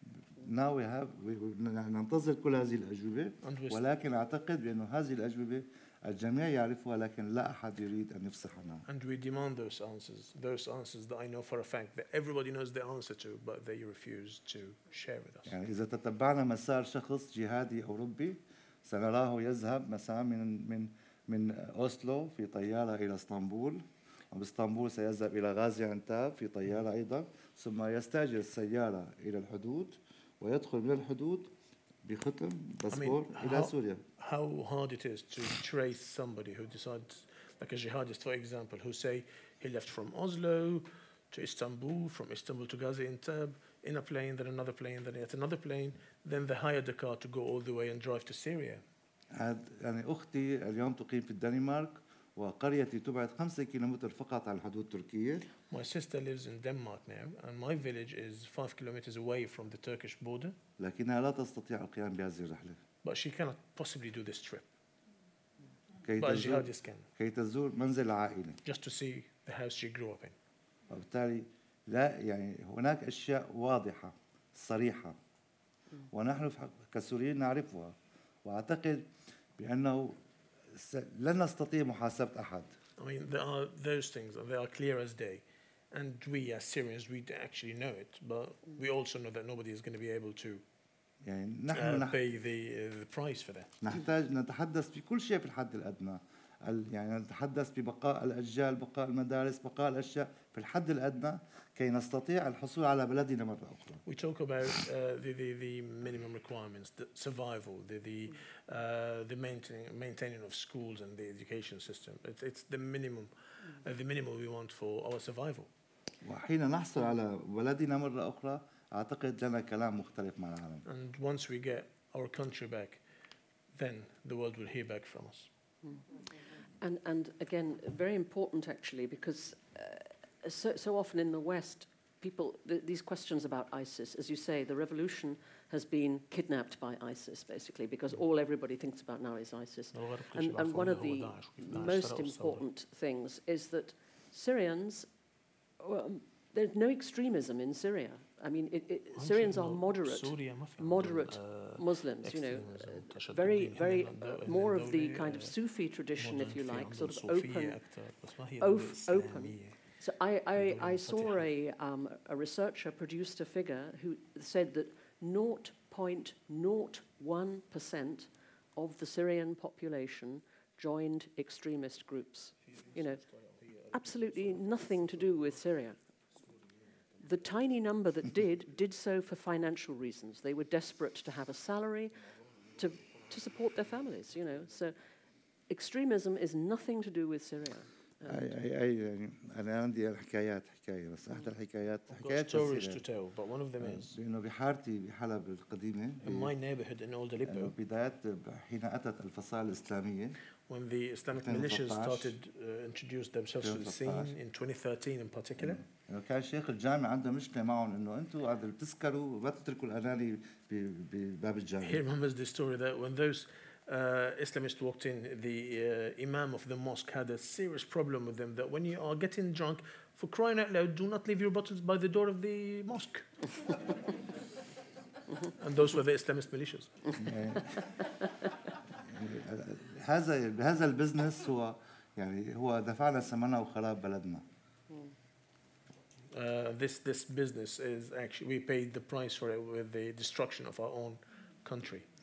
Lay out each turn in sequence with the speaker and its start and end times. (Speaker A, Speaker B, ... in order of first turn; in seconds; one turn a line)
Speaker A: 0.2-8.8
Speaker B: 3.4-3.8
Speaker B: 8.8-15.6
Speaker A: 15.4-31.5
Speaker A: 32.0-34.0
Speaker B: 32.9-48.8
Speaker A: 49.3-55.5
Speaker B: 55.7-60.5
Speaker A: 60.8-62.8
Speaker B: 63.0-64.7
Speaker A: 66.0-68.6
Speaker B: 66.2-67.0
Speaker B: 68.6-70.3
Speaker A: 70.9-75.2
Speaker A: 76.1-80.2
Speaker A: 80.7-82.7
Speaker B: 83.0-90.6
Speaker A: 91.2-92.2
Speaker B: 91.7-93.7
Speaker A: 93.8-104.0
Speaker B: 104.0-115.7
Speaker A: 116.2-120.8
Speaker B: 120.8-123.0
Speaker B: 123.7-125.5
Speaker C: 126.8-145.1
Speaker B: 139.9-142.7
Speaker C: 145.8-157.8
Speaker B: 149.1-155.6
Speaker B: 156.2-159.8
Speaker C: 158.6-173.2
Speaker B: 160.6-161.4
Speaker B: 172.7-175.5
Speaker C: 173.9-176.0
Speaker C: 177.2-184.9
Speaker C: 185.7-188.5
Speaker A: 188.2-193.0
Speaker B: 192.1-194.1
Speaker A: 193.8-196.5
Speaker B: 196.2-197.7
Speaker A: 197.4-200.4
Speaker B: 200.7-205.8
Speaker A: 201.3-202.3
Speaker A: 203.6-204.3
Speaker A: 205.6-212.0
Speaker B: 211.8-223.8
Speaker B: 225.5-227.2
Speaker A: 227.2-227.8
Speaker A: 229.0-234.4
Speaker B: 236.3-242.1